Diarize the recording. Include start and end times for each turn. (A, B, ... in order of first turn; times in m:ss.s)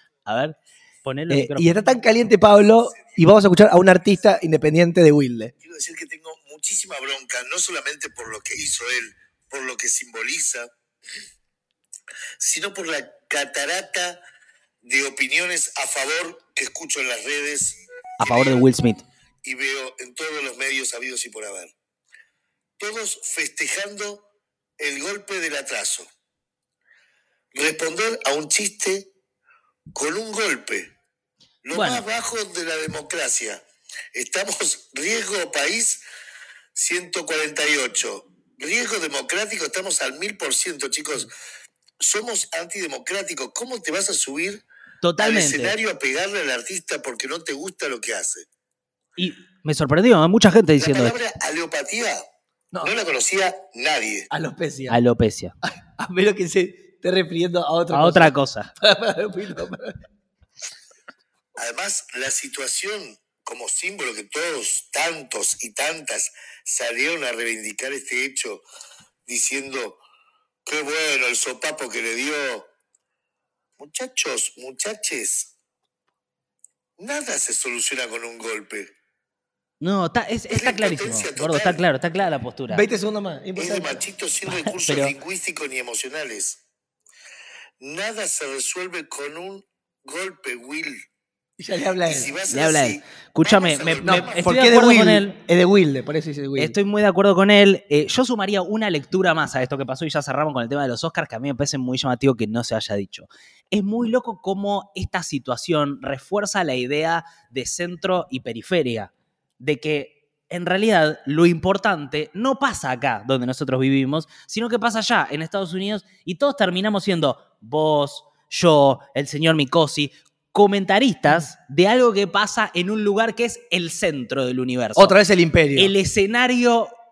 0:00.2-0:01.8 A
0:01.3-0:05.5 B
0:05.6-0:10.7 C
0:12.4-0:14.2 C
0:14.8-0:17.8 C
0:18.2-0:19.0 A
0:19.4-0:21.7 C
0:22.8-0:24.2 C
0:24.8-0:26.0 C
0:27.5-0:29.1 C
0:29.9-0:30.9 C
0:31.6-0:33.6 C
0:31.7-0:32.0 A
0:34.1-0:36.0 C
0:36.7-0:41.3 C
0:42.0-0:44.6 C
0:45.0-0:45.8 A
0:45.2-0:48.4 C
0:49.2-0:51.2 A
0:50.8-0:52.2 C
0:52.8-0:54.3 C
0:54.3-0:55.0 B
0:54.9-0:55.5 A
0:55.6-1:00.0 B
0:57.9-0:58.7 A
1:01.6-1:08.6 C
1:09.2-1:10.0 C
1:10.6-1:12.7 C
1:13.8-1:15.5 C
1:17.0-1:18.9 C
1:19.8-1:22.8 A
1:20.5-1:21.8 C
1:22.7-1:24.0 B
1:23.5-1:26.6 C
1:24.6-1:25.1 A
1:27.8-1:31.0 C
1:31.6-1:32.3 B
1:32.0-1:34.6 C
1:32.5-1:35.4 A
1:34.0-1:36.8 B
1:36.6-2:05.2 A
2:05.0-2:05.9 B
2:05.8-2:06.9 A